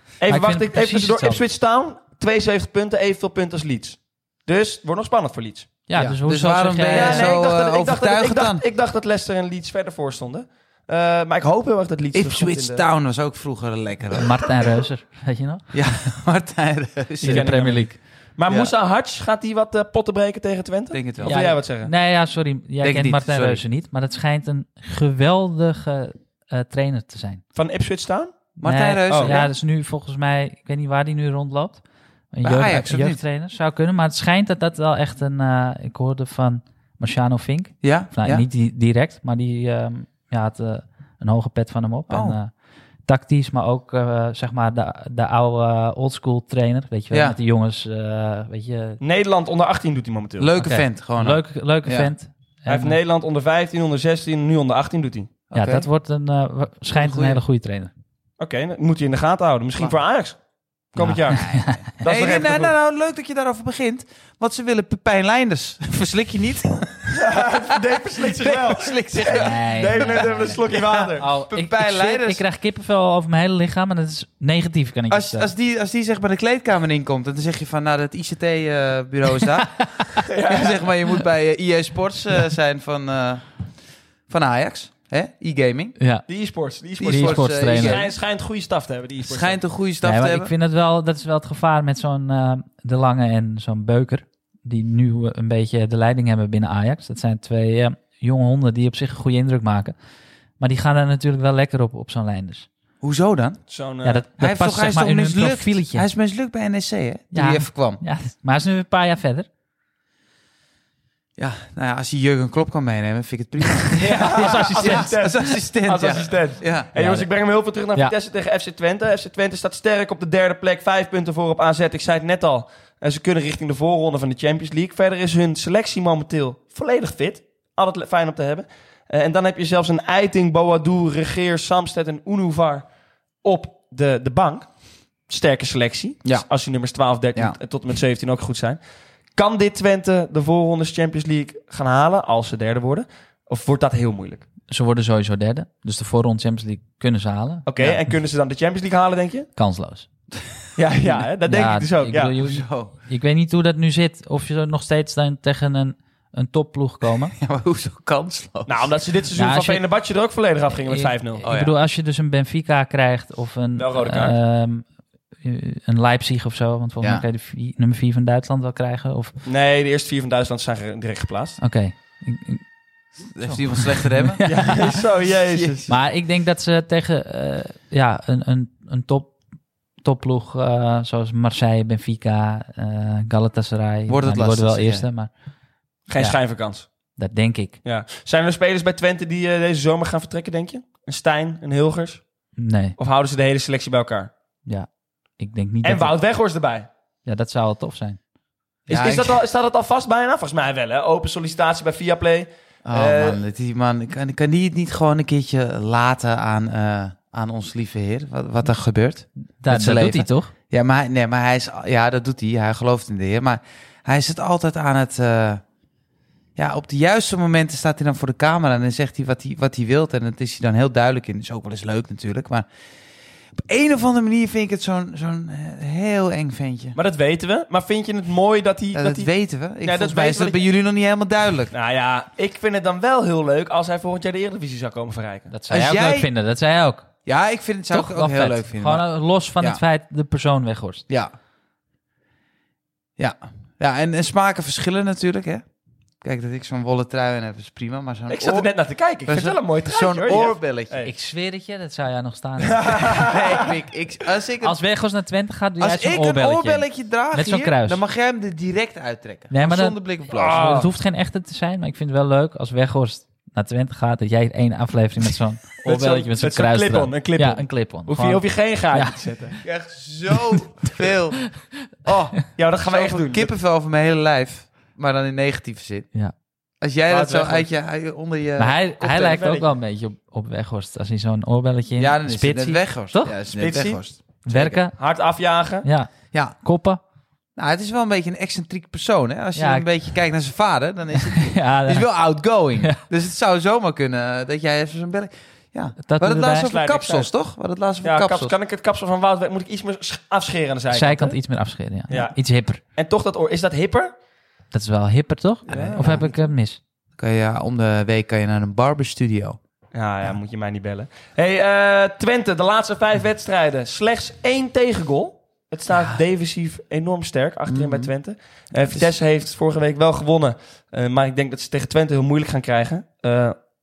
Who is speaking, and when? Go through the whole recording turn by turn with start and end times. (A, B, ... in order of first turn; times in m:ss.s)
0:00.2-0:05.7 A
0:00.3-0:01.4 B
0:05.9-0:07.4 B
0:06.0-0:08.6 C
0:06.9-0:12.8 A
0:12.1-0:14.5 C
0:14.1-0:15.7 B
0:15.7-0:17.5 C
0:17.2-0:21.9 A
0:17.2-0:18.0 B
0:18.5-0:18.7 C
0:20.9-0:21.4 C
0:21.2-0:27.4 B
0:22.8-0:23.6 C
0:27.6-0:28.4 A
0:28.6-0:29.5 C
0:28.6-0:42.5 B
0:29.1-0:29.5 A
0:32.4-0:33.2 C
0:37.8-0:38.4 C
0:42.1-0:42.4 C
0:43.1-0:49.0 B
0:47.1-0:47.4 C
0:49.0-0:50.5 A
0:50.4-0:52.1 C
0:50.6-0:53.0 B
0:52.7-0:55.3 A
0:55.5-0:55.9 C
0:55.6-0:57.9 B
0:57.0-0:57.4 C
0:58.4-1:00.4 A
1:00.9-1:01.5 A
1:01.0-1:01.9 B
1:01.3-1:12.4 C
1:02.0-1:02.7 A
1:07.1-1:11.3 A
1:09.3-1:15.5 B
1:15.1-1:23.4 C
1:19.6-1:20.2 B
1:20.3-1:20.9 A
1:24.3-1:26.0 C
1:26.0-1:26.2 B
1:26.3-1:29.6 A
1:27.0-1:28.1 C
1:27.1-1:28.1 B
1:29.2-1:30.5 C
1:30.0-1:40.0 B
1:40.6-1:42.7 B
1:43.0-1:43.6 C
1:43.7-1:44.2 A
1:44.0-1:46.1 B
1:44.4-1:48.0 C
1:47.3-1:49.5 B
1:51.4-1:56.9 C
1:53.9-1:55.2 B
1:54.0-2:12.9 A
1:57.0-1:57.3 B
2:13.4-2:14.8 A
2:15.3-2:18.8 A
2:19.4-2:24.5 A
2:24.7-2:27.7 B
2:27.7-2:29.5 A
2:29.6-2:30.1 B
2:30.8-2:32.3 A
2:31.4-2:37.3 B
2:32.4-2:32.9 C
2:37.3-2:39.0 C
2:38.7-2:41.4 A
2:39.4-2:39.8 B
2:40.8-2:44.9 B
2:41.4-2:41.8 C
2:43.8-2:44.4 A
2:45.4-2:49.3 B
2:49.4-2:51.6 A
2:51.6-2:52.6 B
2:53.3-2:56.0 C
2:53.4-2:55.0 B
2:54.4-2:55.9 A
2:55.9-2:59.4 B
3:00.0-3:05.3 B
3:04.1-3:05.1 C
3:06.1-3:06.9 A
3:07.2-3:07.8 B
3:07.8-3:12.2 A
3:12.6-3:13.0 B
3:13.0-3:14.3 A
3:14.7-3:16.1 B
3:15.8-3:16.9 A
3:17.2-3:18.2 B
3:18.9-3:19.4 C
3:18.9-3:23.4 A
3:22.8-3:35.6 C
3:29.6-3:30.5 B
3:36.6-3:42.7 C
3:43.5-3:47.0 C
3:47.0-3:50.6 A
3:48.9-3:51.7 C
3:51.7-3:55.5 A
3:55.5-3:57.1 B
3:55.7-3:56.3 C
3:57.3-3:59.0 C
3:57.9-4:01.0 B
4:03.2-4:05.6 C
4:06.2-4:08.7 C
4:08.3-4:11.1 A
4:09.3-4:11.0 C
4:11.0-4:13.1 B
4:12.6-4:13.7 A
4:13.2-4:14.8 C
4:14.6-4:18.0 B
4:15.8-4:20.8 C
4:19.5-4:29.2 B
4:20.3-4:20.9 A
4:25.8-4:29.6 A
4:29.6-4:36.1 C
4:32.6-4:33.5 A
4:36.8-4:39.0 C
4:37.1-4:37.7 A
4:38.6-4:43.3 B
4:39.0-4:39.7 A
4:42.0-4:44.8 C
4:43.5-4:45.9 A
4:44.4-4:45.0 B
4:45.8-4:47.0 B
4:47.6-4:58.5 C
4:49.6-4:49.9 B
4:51.3-4:52.1 B
4:56.0-4:56.7 B
4:56.6-4:57.3 A
4:58.0-5:01.4 A
5:00.9-5:02.8 B
5:02.1-5:04.1 A
5:04.7-5:06.8 B
5:05.7-5:06.3 A
5:05.7-5:06.4 C
5:07.2-5:09.6 C
5:09.9-5:23.6 A
5:17.7-5:18.1 C